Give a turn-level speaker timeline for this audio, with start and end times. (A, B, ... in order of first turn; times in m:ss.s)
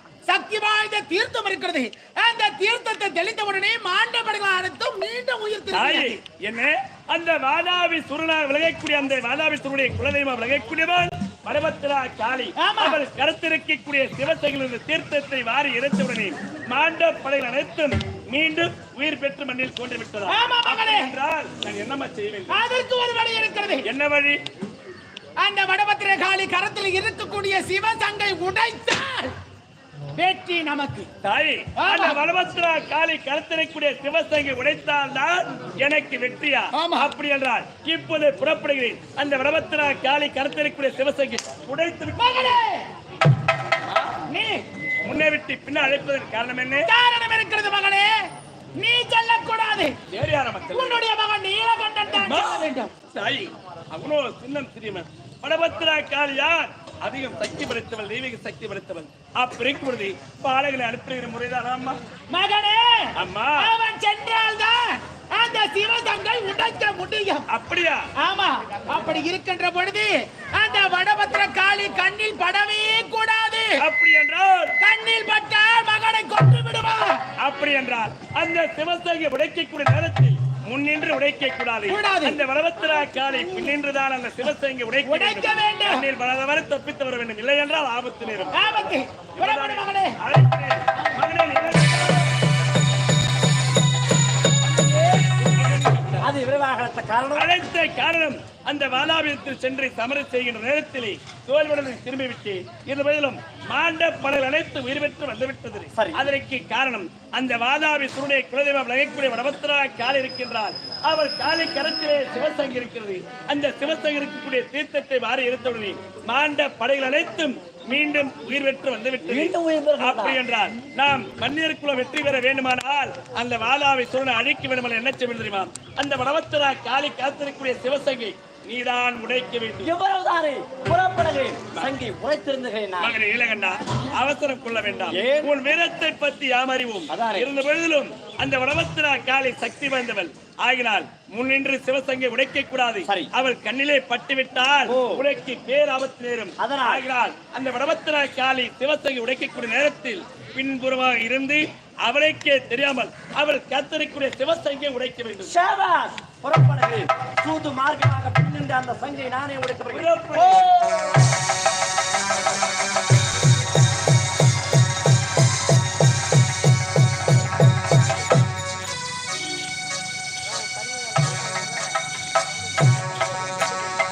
0:00.3-0:06.2 A
0:05.7-0:22.6 B
0:12.6-0:13.0 A
0:20.3-0:21.1 A
0:22.5-0:23.8 A
0:23.8-0:24.4 B
0:25.4-0:29.3 A
0:30.2-0:31.1 A
0:31.2-0:42.6 B
0:31.8-0:32.2 A
0:36.7-0:37.1 A
0:42.2-0:42.8 A
0:43.9-0:44.2 B
0:44.3-0:44.6 A
0:45.0-0:46.9 B
0:46.8-0:48.1 A
0:48.8-0:50.0 A
0:50.1-0:51.0 B
0:50.7-0:52.9 A
0:52.2-1:02.0 B
1:02.3-1:07.4 A
1:03.2-1:03.7 B
1:07.5-1:08.0 B
1:08.2-1:13.8 A
1:13.8-1:14.8 B
1:14.8-1:17.2 A
1:17.4-1:28.6 B
1:21.9-1:22.4 A
1:25.0-1:26.1 A
1:28.5-1:30.2 A
1:29.4-1:32.2 B
1:35.1-1:36.3 B
1:36.2-1:37.5 C
1:37.3-2:09.9 B
1:45.9-1:46.2 C
1:59.2-2:00.4 C
2:09.8-2:13.2 C
2:13.0-2:35.5 B
2:15.1-2:15.5 C
2:17.1-2:17.5 C
2:23.0-2:23.3 C
2:24.9-2:25.2 C
2:26.6-2:27.0 C
2:35.4-2:41.2 C
2:39.9-2:40.7 B